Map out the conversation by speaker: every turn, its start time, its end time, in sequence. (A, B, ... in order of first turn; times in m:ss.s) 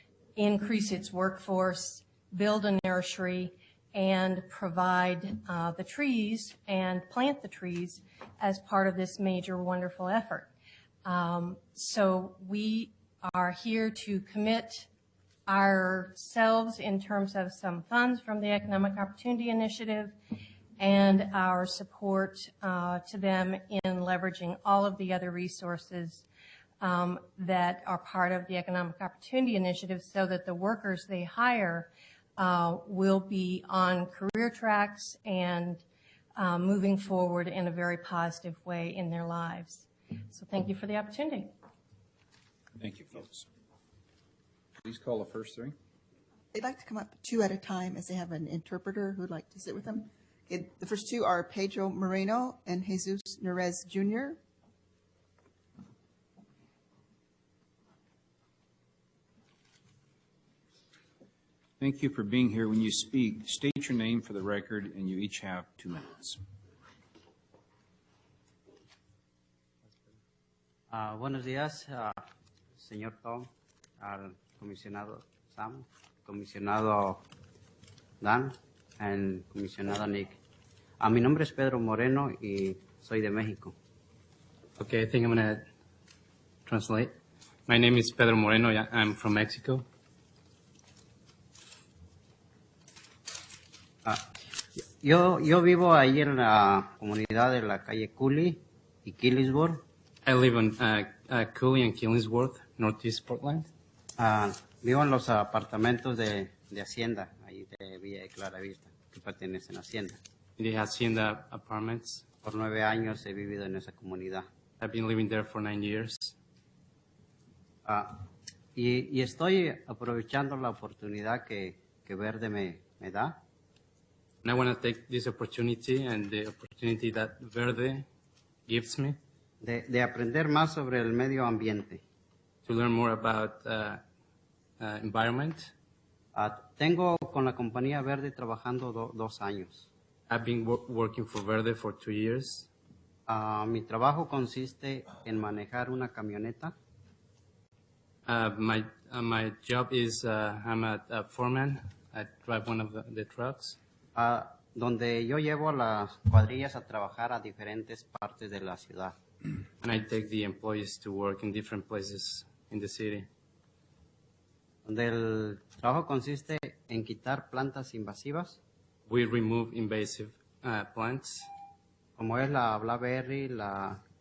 0:00.4-0:10.5 A
0:11.0-0:14.9 A
0:15.5-0:20.1 A
0:20.8-0:26.2 A
0:26.8-0:35.8 A
0:36.4-0:41.5 A
0:42.8-0:43.4 B
0:44.8-0:45.7 B
0:46.5-0:54.4 C
1:01.8-1:06.4 B
1:10.9-1:12.2 D
1:12.8-1:13.5 D
1:14.0-1:17.2 D
1:18.2-1:20.4 D
1:21.0-1:23.7 D
1:24.8-1:25.7 E
1:26.6-1:27.1 E
1:27.7-1:29.8 E
1:35.0-1:39.8 D
1:40.2-1:43.7 E
1:44.2-1:50.2 D
1:50.6-1:52.2 E
1:52.4-1:54.5 D
1:54.8-1:56.3 E
1:57.8-1:58.2 D
1:58.8-2:03.4 D
2:04.4-2:08.0 E
2:08.7-2:09.2 E
2:09.6-2:12.0 D
2:12.6-2:14.0 E
2:14.8-2:15.7 E
2:16.3-2:19.8 D
2:20.3-2:22.7 E
2:23.3-2:26.7 D
2:28.2-2:33.8 E
2:34.1-2:39.1 D
2:39.8-2:43.3 E
2:44.8-2:48.6 D
2:49.1-2:51.5 E
2:52.2-2:54.0 D